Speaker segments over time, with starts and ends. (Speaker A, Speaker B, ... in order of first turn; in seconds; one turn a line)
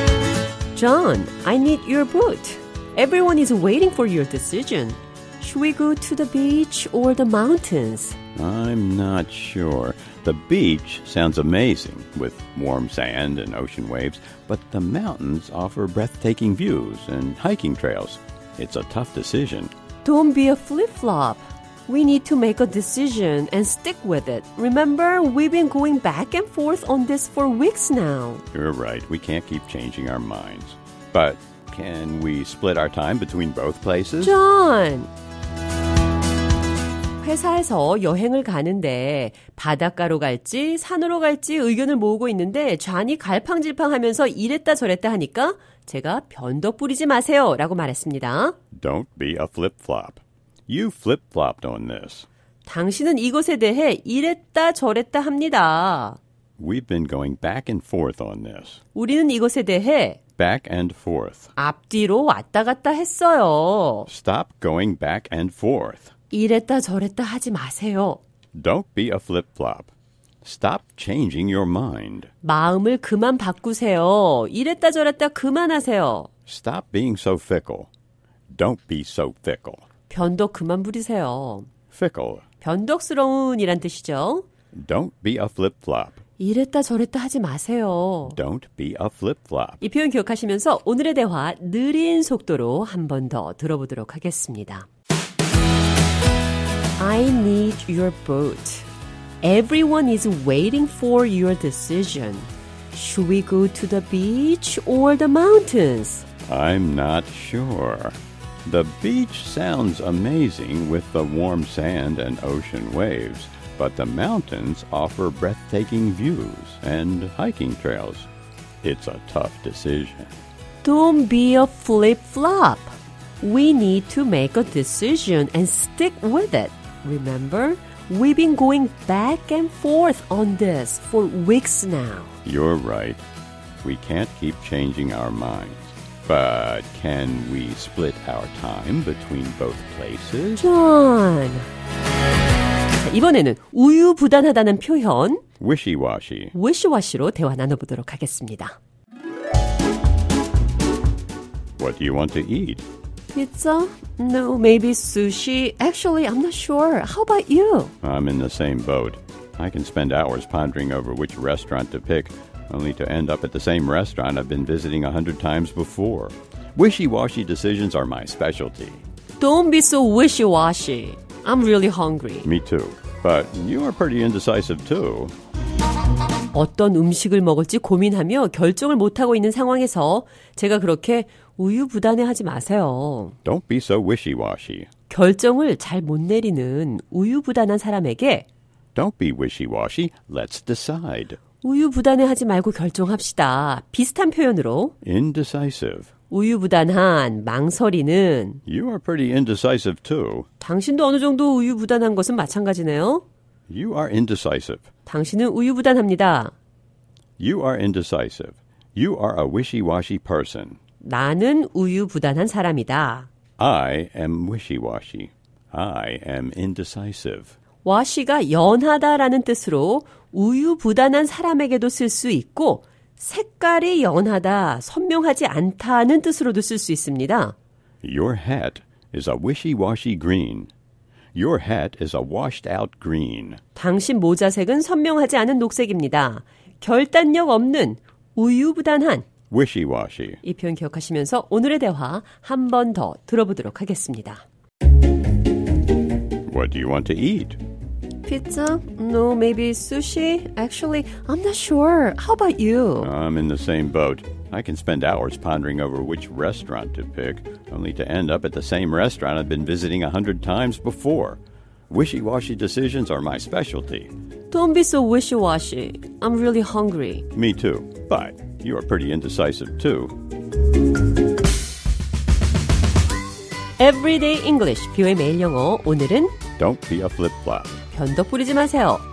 Speaker A: 0.7-8.2
Speaker B: 8.3-19.7
Speaker A: 20.0-28.4
Speaker B: 28.5-34.4
Speaker A: 34.2-35.1
Speaker A: 37.2-48.6
Speaker B: 48.7-52.2
Speaker A: 52.6-56.2
Speaker B: 56.6-58.8
Speaker A: 58.9-60.2
Speaker B: 60.4-61.5
Speaker A: 61.6-64.1
Speaker B: 64.1-66.1
Speaker A: 66.3-68.2
Speaker B: 68.5-69.9
Speaker B: 70.4-72.3
Speaker A: 72.4-76.3
Speaker B: 76.5-77.9
Speaker B: 78.5-79.8
Speaker A: 80.1-81.7
Speaker B: 81.9-82.4
Speaker A: 82.6-84.5
Speaker B: 84.7-86.2
Speaker A: 86.4-88.4
Speaker B: 88.3-89.8
Speaker A: 89.8-94.9
Speaker A: 97.0-98.9
Speaker A: 99.4-106.3
Speaker B: 106.5-118.3
Speaker B: 118.8-120.3
Speaker A: 120.8-132.3
Speaker B: 132.4-133.2
Speaker B: 133.8-140.7
Speaker A: 140.6-141.7
Speaker A: 142.9-145.4
Speaker B: 145.6-146.5
Speaker A: 146.5-148.8
Speaker B: 151.8-152.8
Speaker A: 153.3-157.9
Speaker B: 158.0-169.0
Speaker A: 169.4-172.5
Speaker B: 172.4-175.3
Speaker A: 176.5-183.3
Speaker B: 183.4-184.9
Speaker A: 185.1-188.4
Speaker B: 188.9-191.4
Speaker A: 191.6-194.9
Speaker B: 195.0-196.1
Speaker A: 196.3-198.6
Speaker B: 198.6-200.5
Speaker A: 200.6-203.2
Speaker B: 203.7-204.9
Speaker A: 205.1-206.5
Speaker B: 207.4-210.8
Speaker A: 211.0-213.3
Speaker B: 213.6-217.5
Speaker A: 217.8-227.5
Speaker B: 228.0-230.7
Speaker B: 231.3-233.6
Speaker A: 233.7-239.3
Speaker B: 239.5-240.4
Speaker A: 240.4-244.4
Speaker B: 246.5-247.6
Speaker A: 248.2-253.1
Speaker B: 253.0-264.1
Speaker A: 264.5-267.2
Speaker B: 267.3-270.2
Speaker A: 273.8-276.3
Speaker B: 276.6-277.8
Speaker A: 277.9-279.0